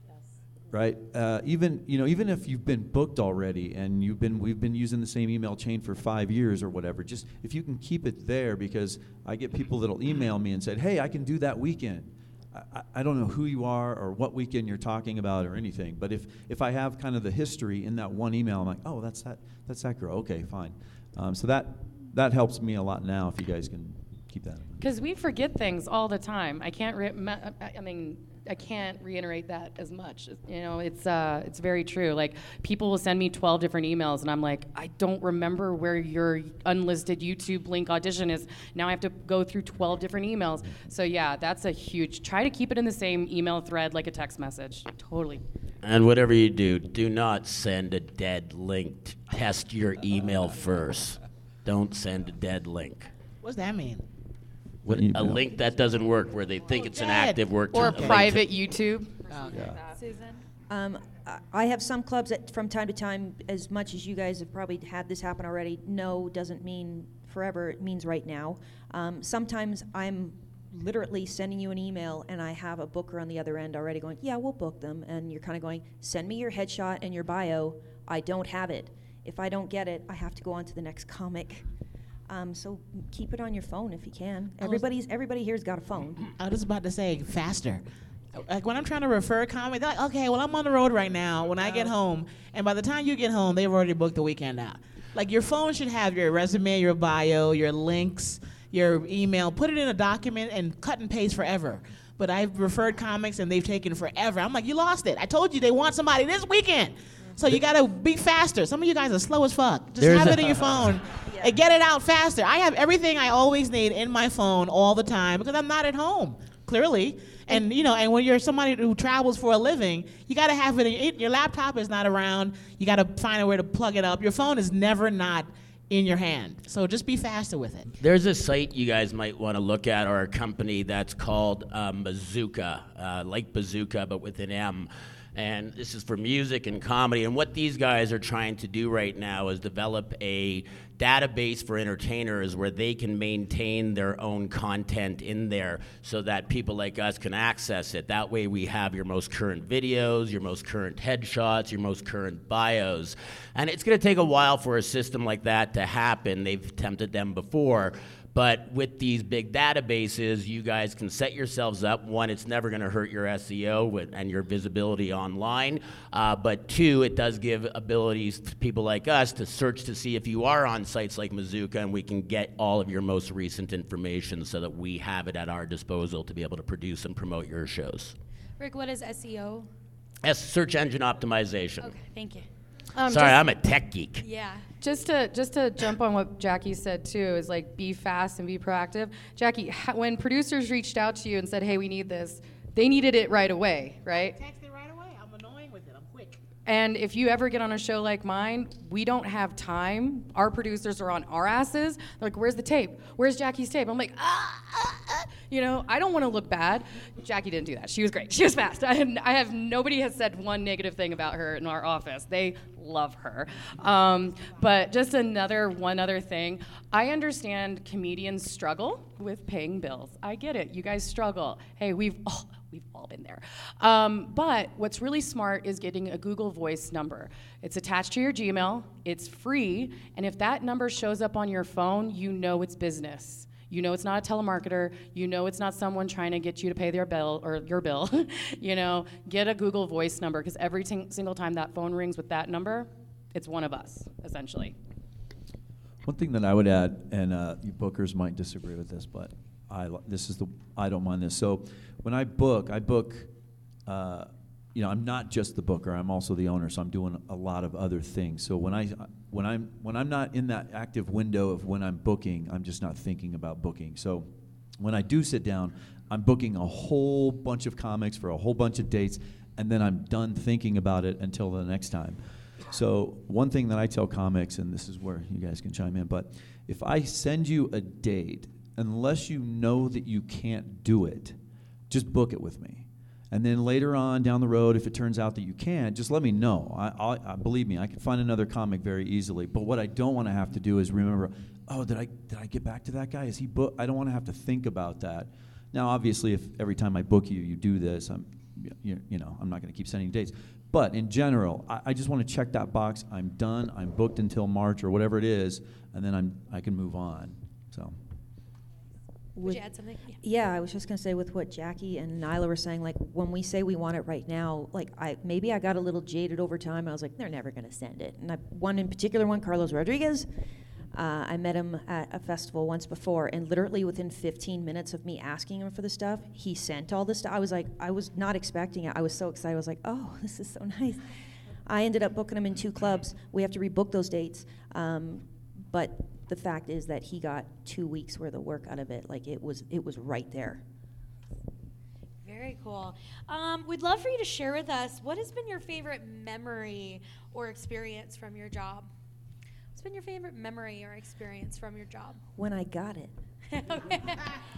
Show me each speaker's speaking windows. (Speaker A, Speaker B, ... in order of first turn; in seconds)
Speaker A: 0.7-24.8, 54.9-55.4, 59.5-59.8, 246.0-253.3, 253.9-264.3, 264.8-281.4, 281.9-308.0
Speaker B: 24.8-45.4, 57.7-59.2, 182.9-183.4, 184.8-194.4, 196.7-244.7
Speaker C: 45.8-53.1, 54.9-58.5, 110.0-111.0, 128.0-178.2, 180.2-181.9, 183.1-184.2
Speaker D: 53.4-54.0, 56.9-58.3, 86.4-127.9, 194.1-196.4
Speaker E: 59.8-60.4, 178.6-179.7, 181.8-182.5, 184.2-184.6, 309.4-310.2, 342.2-348.9, 349.7-352.2, 353.5-354.3
Speaker F: 60.7-81.7, 82.3-86.3, 309.4-309.6, 310.2-320.3, 320.9-331.1, 331.7-340.6, 352.4-353.1